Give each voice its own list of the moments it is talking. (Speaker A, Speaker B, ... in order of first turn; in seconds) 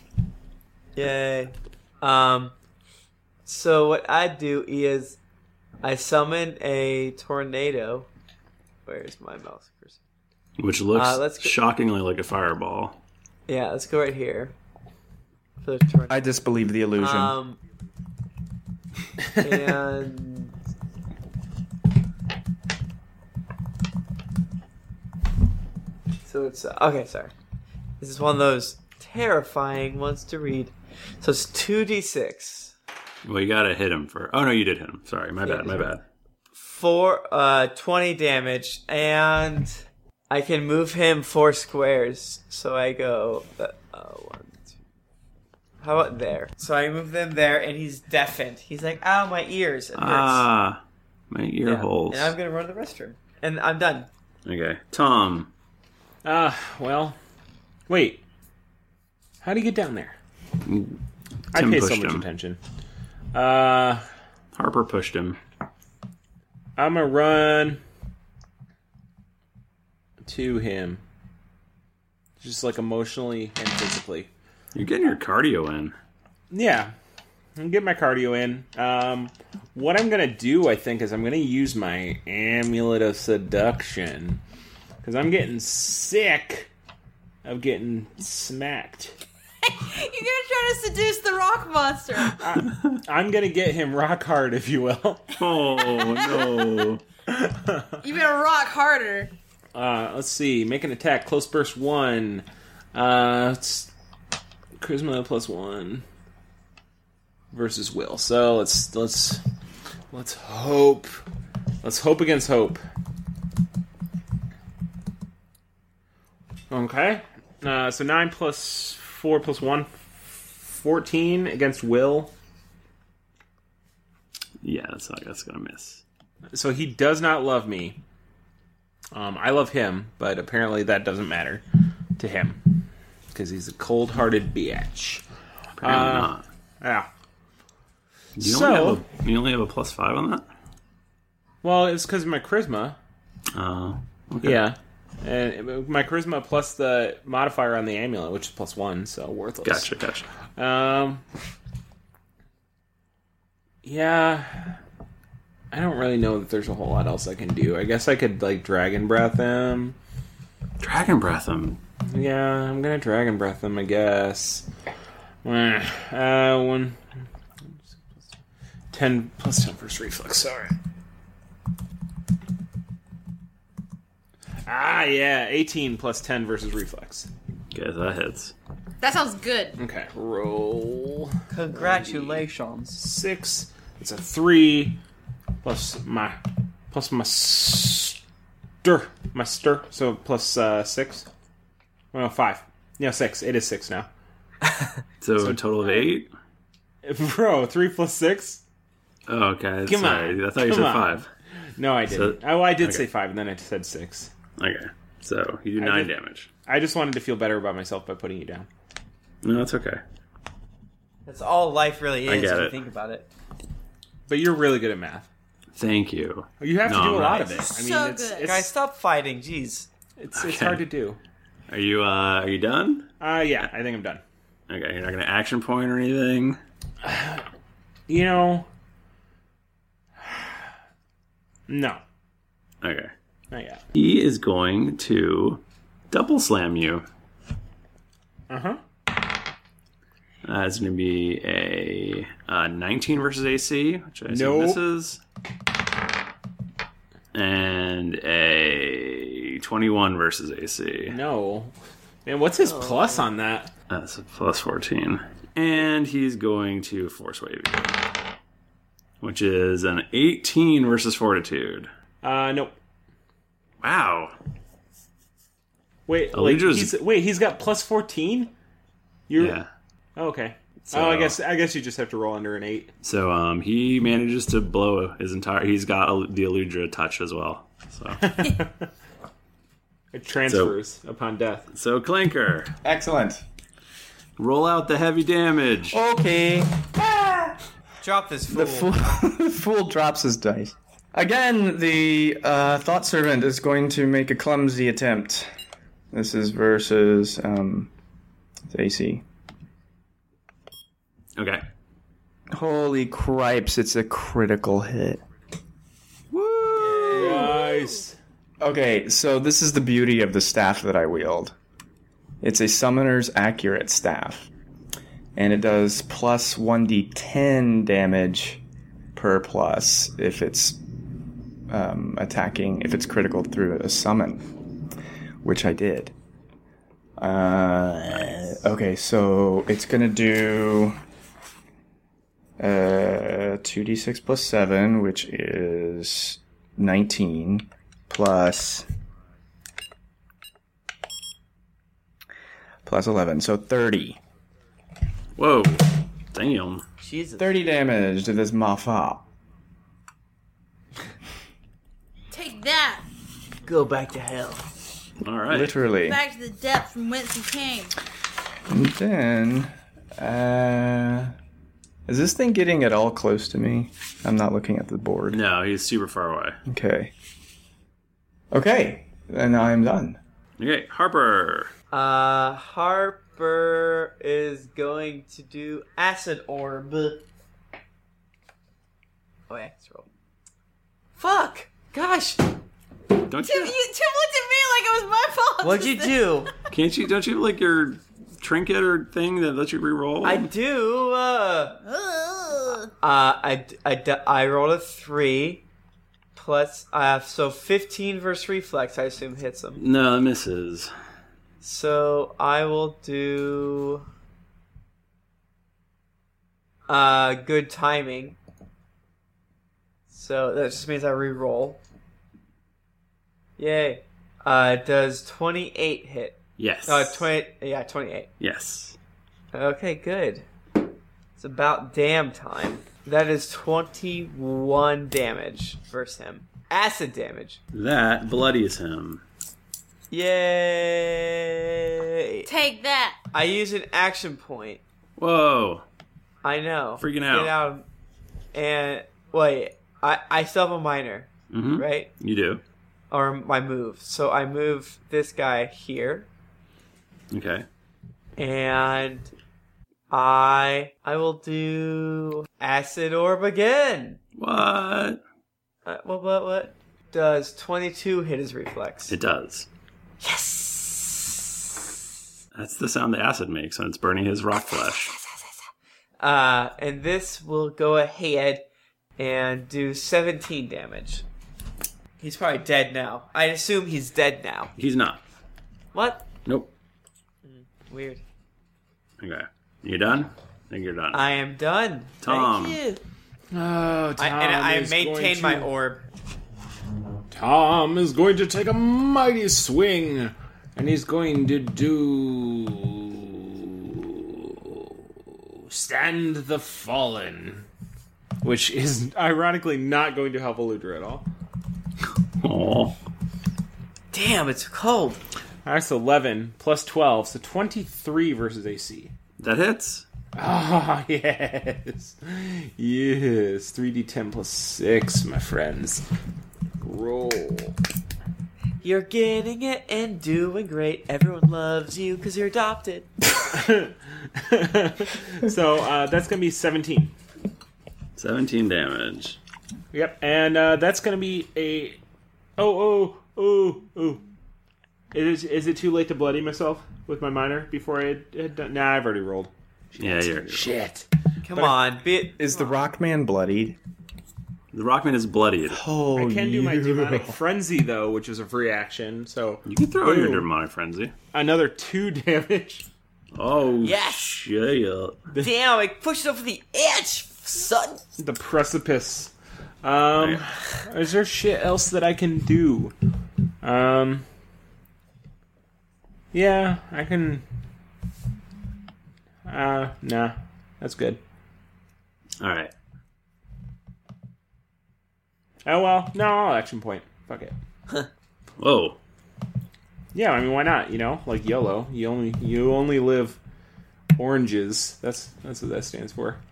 Speaker A: 0.9-2.5, 3.5-5.2, 5.8-8.1, 8.8-10.0, 10.9-11.5, 13.5-14.5, 15.6-16.3, 17.0-17.6, 19.4-20.5, 26.2-27.3, 28.0-32.7, 35.4-35.9, 36.5-44.8, 45.8-50.5, 51.6-54.1, 181.5-183.0, 211.2-213.3, 218.4-219.9, 252.6-253.2, 288.0-288.9, 347.0-347.4, 353.6-354.6, 371.9-377.2, 379.5-380.1, 381.2-382.4, 385.6-386.5, 390.2-391.8, 393.0-395.6, 396.4-399.8, 401.6-404.0, 406.9-408.4, 410.1-411.8, 413.6-418.3, 419.5-420.4, 421.4-427.6, 430.1-432.5, 433.3-434.8, 436.4-437.8, 438.5-442.1, 443.1-446.3, 448.4-449.3, 450.1-454.2, 455.9-459.1, 460.2-461.0, 466.2-468.6, 469.2-471.2, 472.2-474.7, 475.9-476.2, 477.4-478.2, 481.1-483.0, 484.2-486.0, 504.1-505.2, 518.8-523.1, 541.4-542.8, 553.8-554.3, 555.4-558.0
Speaker B: 10.6-13.0, 33.2-36.0, 50.0-50.8, 51.3-52.3, 54.5-55.5, 60.6-60.9, 61.5-62.2, 64.5-65.4, 74.7-75.9, 95.4-97.0, 124.6-126.0, 135.8-136.4, 138.4-140.4, 143.5-144.6, 149.6-150.3, 160.8-161.8, 177.7-178.5, 195.2-196.3, 199.3-201.3, 202.1-203.1, 204.6-206.5, 209.4-210.0, 212.2-212.7, 215.7-217.6, 220.3-220.8, 221.7-223.1, 224.7-226.6, 232.8-233.1, 233.9-237.0, 240.4-245.2, 247.3-251.2, 253.9-258.0, 259.2-261.9, 263.8-264.3, 266.3-266.9, 269.4-269.7, 270.9-271.4, 273.0-278.3, 280.4-280.7, 281.7-282.7, 284.4-286.0, 301.4-301.6, 306.3-307.5, 345.4-346.8, 355.2-355.7, 365.3-366.6, 370.6-371.7, 383.3-383.7, 386.7-390.5, 399.8-400.9, 416.6-417.2, 418.4-419.0, 427.7-429.2, 435.2-435.8, 437.0-437.5, 441.5-442.6, 447.3-447.6, 454.4-455.2, 459.1-459.7, 462.5-465.1, 474.8-475.2, 479.2-481.2, 482.2-482.8, 502.4-502.9, 509.4-510.0, 528.2-529.4, 540.0-540.8, 544.7-545.8, 549.6-551.1, 553.3-555.2, 572.4-572.7, 578.6-579.0
Speaker C: 16.1-17.4, 282.8-283.4, 285.9-287.6, 288.5-295.5, 296.1-297.9, 298.7-299.2, 302.5-305.2, 308.6-311.5, 312.4-314.5, 315.4-318.6, 319.1-320.8, 321.7-324.4, 325.4-326.1, 327.2-331.0, 332.6-338.9, 342.9-344.2, 347.4-349.2, 355.5-356.2, 358.7-361.3, 362.1-365.4, 366.7-367.1, 368.5-370.2, 542.4-543.8, 545.7-547.4
Speaker D: 56.2-57.2, 57.9-58.2, 59.4-60.1, 61.5-62.6, 63.3-64.0, 66.8-67.8, 70.2-71.0, 72.4-74.3, 76.5-76.9, 77.5-84.4, 85.0-86.7, 87.4-89.2, 92.4-95.3, 97.3-97.9, 99.7-103.9, 104.8-106.0, 107.5-109.4, 110.1-111.1, 111.8-112.8, 116.7-122.3, 126.5-128.0, 129.1-131.6, 132.2-132.8, 133.3-135.2, 135.8-137.1, 138.4-139.0, 141.6-143.0, 144.4-149.9, 150.6-151.2, 153.8-154.8, 155.7-160.0, 162.1-164.7, 165.4-167.0, 168.9-170.7, 174.7-177.3, 179.8-185.0, 185.6-186.4, 186.9-188.2, 188.8-191.3, 192.1-194.1, 195.4-196.1, 197.0-198.6, 199.8-201.2, 201.8-204.3, 205.8-206.1, 206.7-208.7, 214.3-215.3, 216.6-218.7, 220.2-221.2, 223.2-224.2, 227.0-227.4, 228.1-228.7, 230.2-230.7, 231.7-232.0, 233.5-233.8, 238.5-238.8, 244.3-244.8, 251.1-251.7, 252.2-253.7, 262.2-262.7, 266.1-268.5, 269.3-269.6, 270.1-272.9, 278.2-278.9, 280.1-281.7, 307.1-308.2, 483.5-485.7, 487.3-497.6, 498.4-501.2, 505.6-509.1, 510.4-516.0, 516.8-517.8, 523.5-527.1, 529.9-532.0, 532.6-534.2, 535.1-541.8, 546.1-550.5, 551.3-552.8, 558.2-562.9, 563.6-564.2, 566.3-567.4, 569.5-571.2, 575.6-577.5, 580.1-583.4, 584.2-586.4
Speaker E: 89.6-92.4, 95.5-96.8, 98.0-99.3, 179.0-179.8, 217.5-218.6, 307.5-307.8, 352.3-353.0, 356.0-357.9, 383.4-386.2, 391.9-392.9, 432.4-433.2